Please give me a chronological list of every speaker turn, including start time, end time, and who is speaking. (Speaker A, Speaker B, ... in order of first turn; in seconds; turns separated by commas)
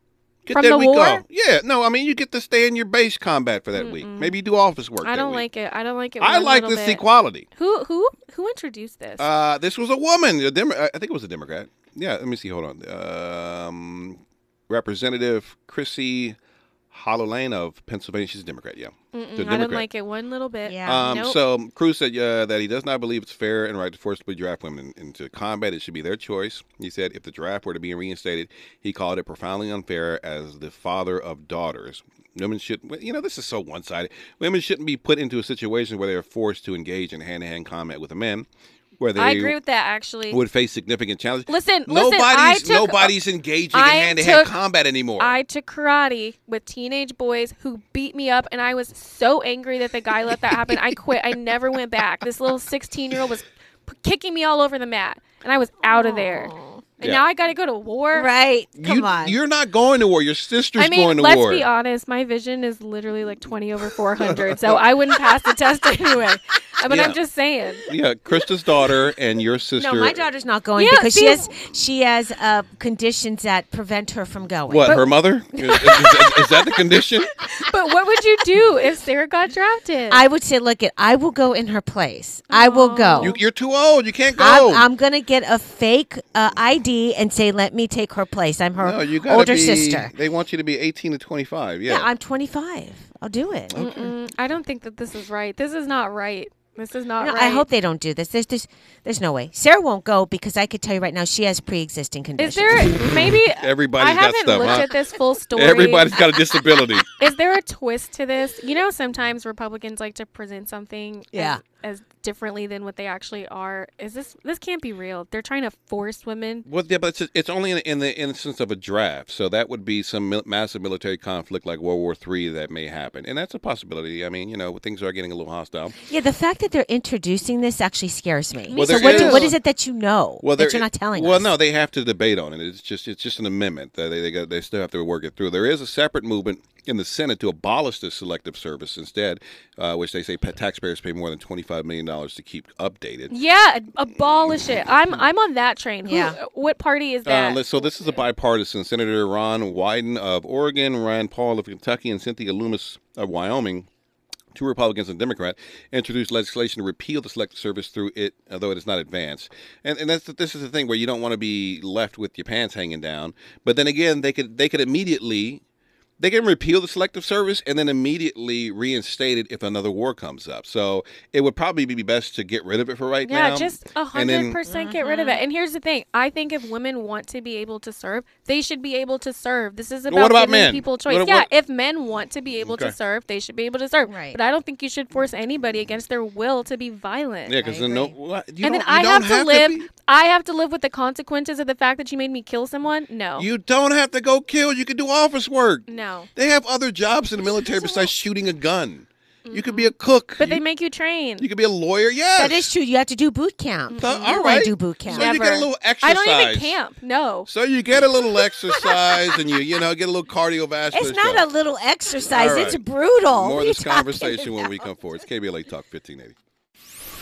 Speaker A: 0.4-5.5, Speaker B: 0.5-1.2, Speaker B: 3.7-4.3, Speaker B: 5.0-7.0, Speaker A: 6.2-7.5, Speaker B: 7.5-9.3, Speaker A: 9.2-16.4, Speaker A: 16.9-19.9, Speaker B: 19.1-21.4, Speaker C: 20.6-21.3, Speaker A: 20.8-38.5, Speaker A: 39.0-39.5, Speaker B: 39.1-40.4, Speaker A: 40.3-45.4, Speaker B: 41.5-43.1, Speaker B: 43.7-44.5, Speaker B: 45.2-58.3, Speaker C: 55.8-56.6, Speaker C: 58.1-59.4, Speaker A: 58.8-61.7, Speaker B: 60.8-67.8, Speaker A: 64.2-64.8, Speaker A: 66.9-67.2, Speaker A: 67.9-70.2, Speaker C: 69.8-75.0, Speaker B: 70.8-71.5, Speaker A: 74.7-77.3, Speaker B: 74.8-75.1, Speaker C: 75.7-76.0, Speaker B: 77.5-80.2, Speaker C: 80.1-83.4, Speaker B: 82.5-83.4, Speaker A: 83.2-84.8, Speaker C: 84.4-90.1, Speaker A: 88.8-92.1, Speaker C: 91.9-93.7, Speaker A: 93.7-94.1, Speaker B: 93.7-97.6, Speaker C: 97.2-103.2, Speaker B: 102.4-106.2, Speaker A: 103.0-105.0, Speaker A: 105.5-107.1, Speaker B: 107.2-116.6, Speaker C: 111.3-111.6, Speaker A: 116.7-126.0, Speaker C: 126.0-131.5, Speaker B: 128.7-129.5, Speaker A: 128.7-129.6, Speaker A: 130.4-143.3, Speaker B: 143.3-148.2, Speaker C: 146.0-146.4, Speaker A: 147.2-153.9, Speaker A: 154.5-165.6, Speaker A: 166.2-174.6, Speaker B: 173.2-187.5, Speaker C: 174.7-175.4, Speaker A: 180.1-181.5, Speaker A: 182.6-182.9, Speaker C: 184.1-184.4, Speaker A: 187.5-189.9, Speaker C: 187.6-188.1, Speaker B: 188.6-193.5, Speaker A: 193.4-200.6, Speaker B: 195.9-196.3, Speaker B: 197.4-198.1, Speaker B: 199.4-201.4, Speaker A: 201.4-202.7, Speaker C: 202.3-205.6, Speaker B: 203.9-207.5, Speaker A: 204.0-206.8, Speaker A: 207.5-211.4, Speaker C: 210.9-214.7, Speaker A: 212.2-216.3